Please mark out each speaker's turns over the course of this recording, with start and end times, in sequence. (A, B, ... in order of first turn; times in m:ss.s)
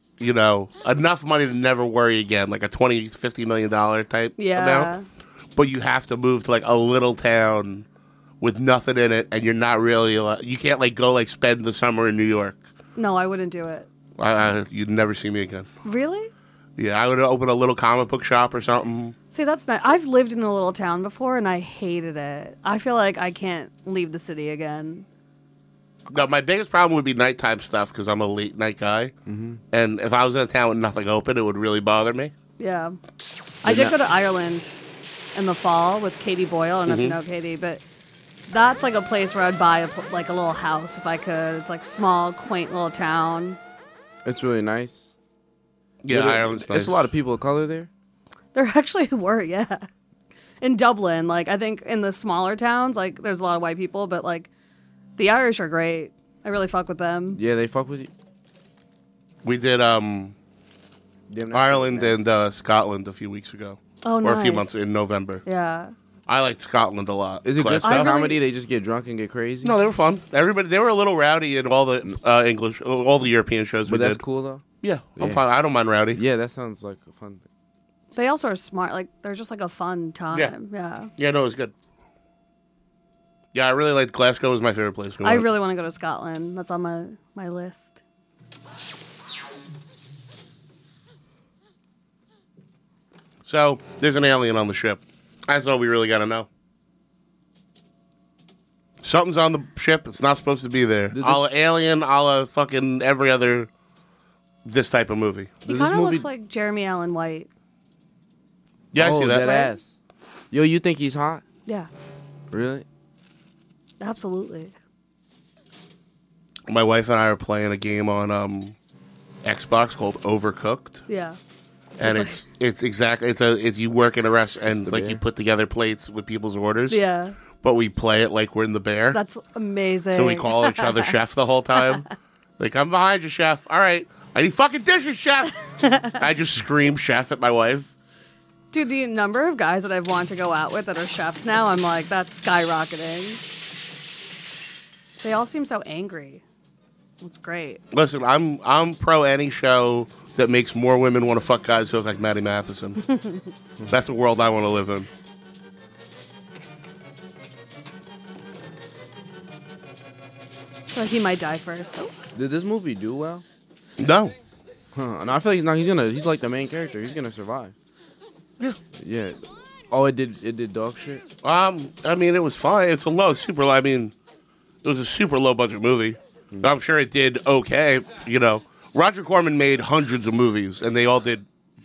0:00.2-0:04.9 A
0:04.4-0:05.1 B
0:05.6-0:07.9 A
0:08.4-0:12.6 A
0:13.0-0:13.9 B
0:14.2-0:15.7 A
0:15.8-0:16.3 B
0:16.8-0:19.2 A
0:19.3-0:25.1 B
0:26.1-0:29.1 A
0:29.3-0:29.6 C
0:29.7-0:32.3 A
0:32.6-0:33.0 B
0:33.6-0:34.0 C
0:33.6-0:34.8 B
0:35.4-0:37.8 B
0:36.9-0:37.2 A
0:38.5-0:43.6 B
0:44.2-0:45.1 C
0:46.0-0:47.1 A
0:46.1-0:47.9 C
0:48.6-0:49.9 B
0:50.6-0:54.5 B
0:55.2-0:57.4 B
0:57.4-0:58.1 C
0:59.4-1:00.4 A
1:01.3-1:02.2 C
1:01.5-1:05.4 A
1:04.0-1:04.8 B
1:05.5-1:05.9 B
1:06.3-1:08.1 A
1:07.4-1:09.8 C
1:07.8-1:08.4 B
1:09.6-1:14.2 A
1:13.9-1:14.6 C
1:14.8-1:16.2 A
1:15.2-1:15.4 C
1:16.1-1:17.4 C
1:18.2-1:21.1 B
1:21.2-1:21.7 A
1:23.5-1:25.5 A
1:25.2-1:28.0 B
1:33.4-1:36.5 A
1:39.0-1:43.7 A
1:41.1-1:41.5 C
1:44.6-1:45.6 A
1:45.7-1:46.3 C
1:45.7-1:47.5 B
1:48.9-1:49.5 A
1:49.0-1:49.9 C
1:49.4-1:49.7 B
1:50.5-1:51.4 C
1:52.5-1:52.8 C
1:54.0-1:54.7 B
1:56.7-1:58.8 A
1:59.4-2:01.0 A
2:01.1-2:01.4 B
2:02.0-2:07.0 A
2:02.0-2:02.4 B
2:04.7-2:05.2 C
2:06.9-2:07.4 B
2:07.6-2:09.2 A
2:09.1-2:11.1 B
2:10.1-2:12.1 A
2:12.6-2:15.6 A
2:15.8-2:16.2 B
2:16.1-2:17.9 A
2:18.7-2:23.4 B
2:25.2-2:26.4 B
2:27.2-2:27.8 B
2:27.9-2:33.0 A
2:33.1-2:33.4 B
2:33.9-2:35.1 A
2:40.9-2:42.2 B
2:42.4-2:43.4 C
2:44.0-2:44.4 A
2:44.9-2:47.7 C
2:49.0-2:51.2 C
2:51.4-2:54.1 A
2:54.8-3:01.5 A